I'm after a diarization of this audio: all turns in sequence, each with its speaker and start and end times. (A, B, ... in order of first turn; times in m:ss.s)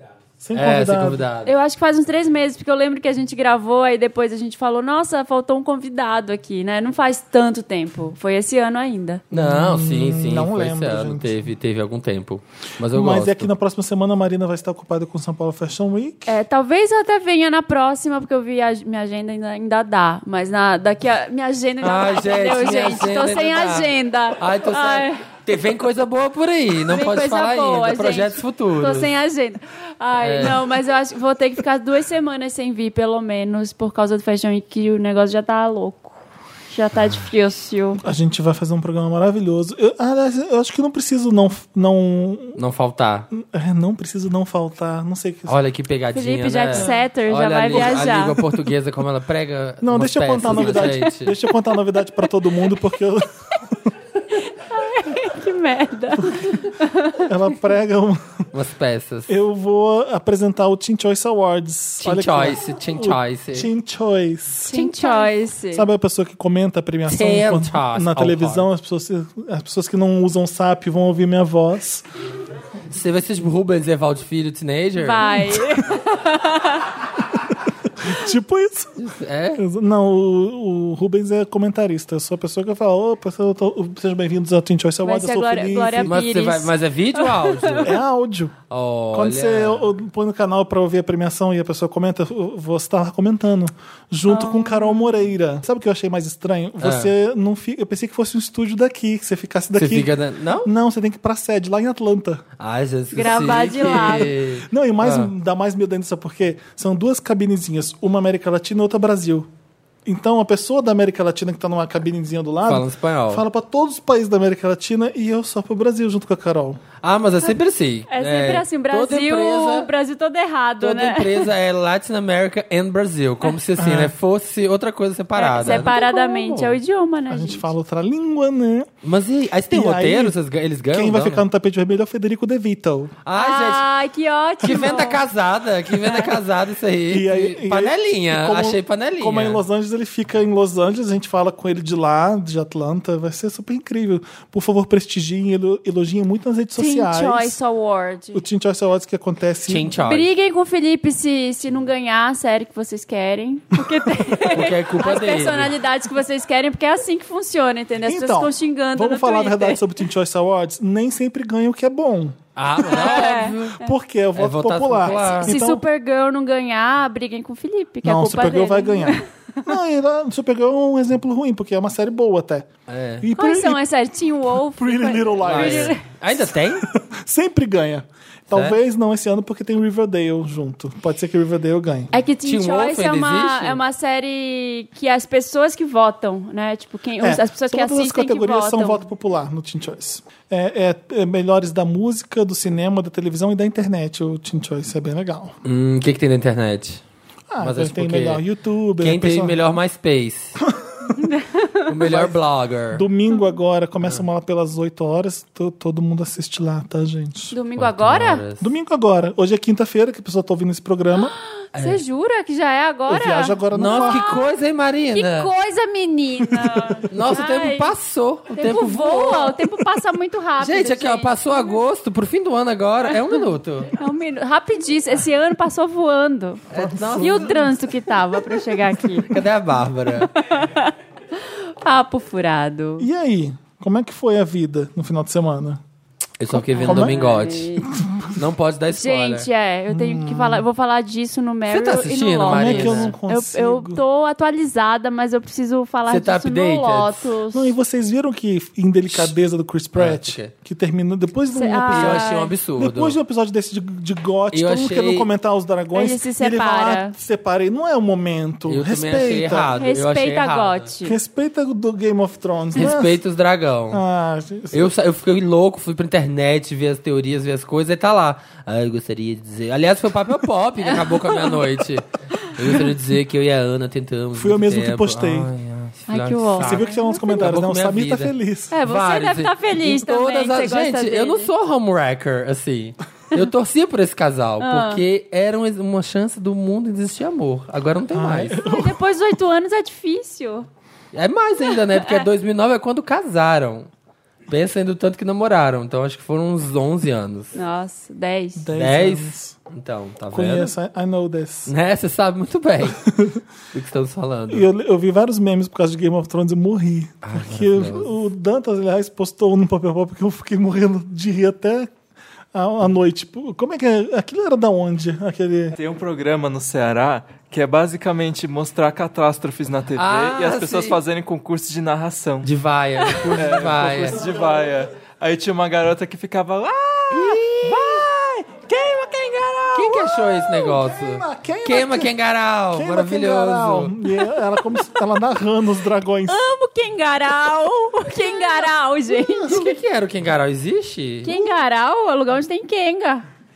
0:00.4-0:01.3 A
0:00.5-0:01.5 B
0:01.4-0:09.2 C
0:09.3-0:11.4 A
0:09.3-0:13.5 B
0:12.9-0:16.4 A
0:16.3-0:25.2 C
0:21.8-0:29.1 B
0:26.9-0:36.2 C
0:30.2-0:30.6 B
0:36.7-0:38.0 C
0:38.0-0:42.6 A
0:42.6-0:43.3 B
0:43.3-0:45.6 A
0:45.5-0:51.4 B
0:46.1-0:48.4 C
0:49.8-0:53.9 A
0:54.6-0:57.3 C
0:56.2-0:56.6 A
0:57.2-0:58.5 A
0:58.5-0:59.3 B
0:59.3-1:12.0 A
1:02.0-1:03.7 B
1:04.7-1:05.9 C
1:07.1-1:08.7 B
1:12.9-1:15.5 B
1:15.0-1:16.9 C
1:18.0-1:19.0 A
1:19.0-1:19.6 B
1:19.6-1:26.2 A
1:25.0-1:27.9 C
1:26.0-1:28.0 B
1:27.8-1:28.6 A
1:28.7-1:29.9 B
1:29.1-1:42.4 A
1:34.3-1:35.2 C
1:36.8-1:37.1 B
1:39.8-1:40.7 B
1:42.6-1:45.3 B
1:43.1-1:44.3 C
1:43.8-1:49.5 A
1:50.0-1:56.8 A
1:52.7-1:53.4 B
1:57.0-1:59.9 B
1:58.1-2:01.5 C
2:00.8-2:06.8 B
2:03.8-2:04.1 A
2:05.4-2:07.6 C
2:07.3-2:08.9 A
2:09.0-2:11.4 B
2:09.7-2:10.4 A
2:10.9-2:13.1 A
2:13.2-2:13.9 B
2:13.4-2:15.2 C
2:14.6-2:19.6 B
2:17.1-2:27.6 A
2:26.8-2:28.4 C
2:28.3-2:29.9 A
2:29.7-2:30.3 B
2:30.1-2:39.9 C
2:34.5-2:35.8 B
2:38.0-2:42.4 A
2:42.6-2:43.8 B
2:42.8-2:43.9 C
2:43.8-2:45.8 A
2:44.4-2:45.5 B
2:45.1-2:49.2 C
2:48.0-2:52.7 A
2:52.9-2:53.3 B
2:53.2-2:53.8 A
2:53.4-2:56.0 C
2:54.7-3:02.1 A
2:55.4-2:56.9 B
2:58.5-2:58.8 B
3:02.1-3:09.0 C
3:02.4-3:03.8 B
3:07.2-3:15.6 A
3:15.6-3:17.0 B
3:17.5-3:19.6 A
3:17.6-3:18.4 B
3:19.0-3:20.6 B
3:21.2-3:21.8 C
3:21.9-3:23.0 B
3:22.0-3:22.4 A
3:22.9-3:27.5 A
3:27.5-3:28.4 C
3:27.8-3:28.7 B
3:28.6-3:31.3 A
3:31.8-3:32.0 B
3:31.8-3:34.4 C
3:33.1-3:34.4 A
3:33.7-3:35.5 B
3:35.1-3:37.9 C
3:36.6-3:36.9 A
3:37.1-3:39.6 B
3:38.6-3:41.7 C
3:40.6-3:43.9 B
3:43.9-3:46.6 C
3:46.7-3:47.6 B
3:46.7-3:47.7 A
3:47.2-3:49.3 C
3:49.2-3:50.3 B
3:50.4-3:50.9 C
3:51.5-3:53.1 C
3:53.0-3:55.8 A
3:56.4-3:57.8 B
3:56.5-3:57.2 A
3:56.7-3:57.9 C
3:57.9-3:58.4 A
3:58.3-3:59.5 B
3:58.9-4:07.8 C
3:59.9-4:00.6 A
4:01.7-4:03.2 B
4:02.4-4:04.0 A
4:06.1-4:07.3 B
4:07.5-4:19.7 A
4:10.0-4:10.5 B
4:11.5-4:12.5 C
4:11.9-4:13.2 B
4:14.5-4:15.3 B
4:16.0-4:17.2 C
4:18.7-4:20.9 B
4:19.7-4:21.2 C
4:21.0-4:23.2 A
4:22.8-4:24.0 B
4:23.9-4:24.9 A
4:24.7-4:48.6 B
4:30.8-4:31.6 C
4:34.4-4:35.5 A
4:36.1-4:37.2 C
4:36.6-4:38.7 A
4:38.7-4:41.5 C
4:44.6-4:45.0 C
4:48.1-4:49.0 A
4:48.6-4:50.7 C
4:51.1-4:53.9 B
4:51.9-4:52.2 C
4:54.5-4:57.5 B
4:57.6-4:58.7 C
4:58.6-4:59.6 A
4:58.8-5:00.7 B
5:00.3-5:01.7 A
5:01.7-5:03.0 B
5:03.1-5:03.4 A
5:03.7-5:04.7 B
5:04.5-5:11.9 A
5:07.2-5:08.1 B
5:12.5-5:15.8 A
5:15.8-5:22.5 D
5:20.0-5:21.0 B
5:22.4-5:24.2 B
5:23.3-5:27.4 D
5:27.1-5:28.1 B
5:27.7-5:28.0 A
5:28.6-5:32.1 A
5:28.9-5:29.7 D
5:29.7-5:33.9 B
5:32.7-5:36.4 A
5:36.3-5:39.7 C
5:39.1-5:39.6 A
5:39.5-5:41.3 B
5:41.2-5:43.2 C